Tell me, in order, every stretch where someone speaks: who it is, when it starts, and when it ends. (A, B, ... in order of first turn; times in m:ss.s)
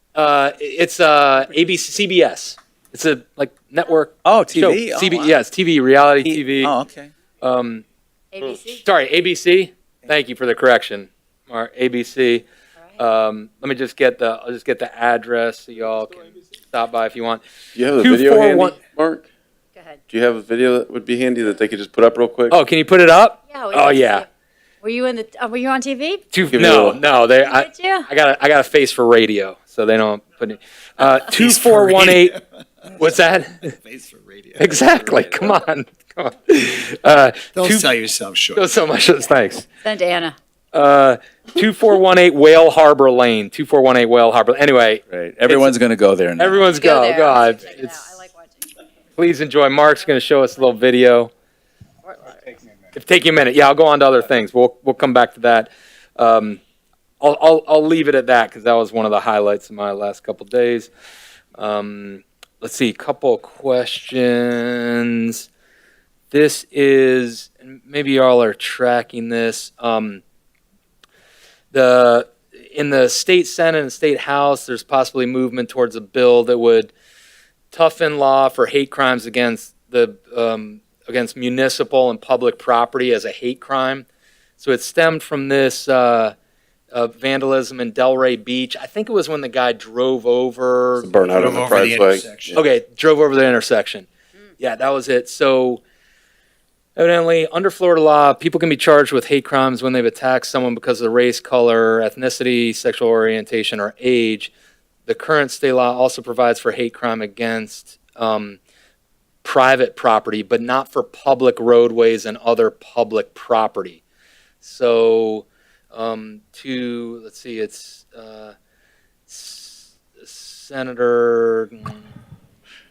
0:00.1-0:06.7 A
0:04.2-0:05.3 B
0:06.2-0:07.1 B
0:07.4-0:07.8 A
0:08.3-0:08.8 C
0:08.8-0:12.4 A
0:13.0-0:17.4 A
0:17.7-0:19.3 D
0:18.0-0:18.8 A
0:19.7-0:20.0 C
0:20.1-0:22.6 D
0:22.5-0:24.2 A
0:23.5-0:24.3 C
0:24.8-0:26.2 C
0:26.3-0:32.4 A
0:26.5-0:27.0 D
0:27.4-0:28.1 C
0:31.4-0:33.2 E
0:33.0-0:33.8 A
0:33.7-0:35.0 E
0:34.6-0:37.9 A
0:37.5-0:38.6 E
0:38.5-0:39.7 A
0:39.8-0:40.4 C
0:40.7-0:45.8 A
0:45.1-0:46.6 B
0:46.4-0:48.1 A
0:46.7-0:48.7 C
0:49.2-0:51.3 A
0:52.0-0:52.6 C
0:52.9-0:56.6 A
0:57.2-1:00.9 A
1:01.6-1:05.5 A
1:06.3-1:10.2 A
1:11.7-1:16.9 A
1:17.7-1:24.0 A
1:24.6-1:26.3 A
1:26.9-1:31.3 A
1:31.0-1:32.6 D
1:31.3-1:32.6 E
1:32.5-1:34.1 A
1:34.6-1:35.8 A
1:37.0-1:44.5 A
1:45.0-1:48.6 A
1:49.4-1:54.0 A
1:54.6-1:58.5 A
1:59.3-2:02.1 A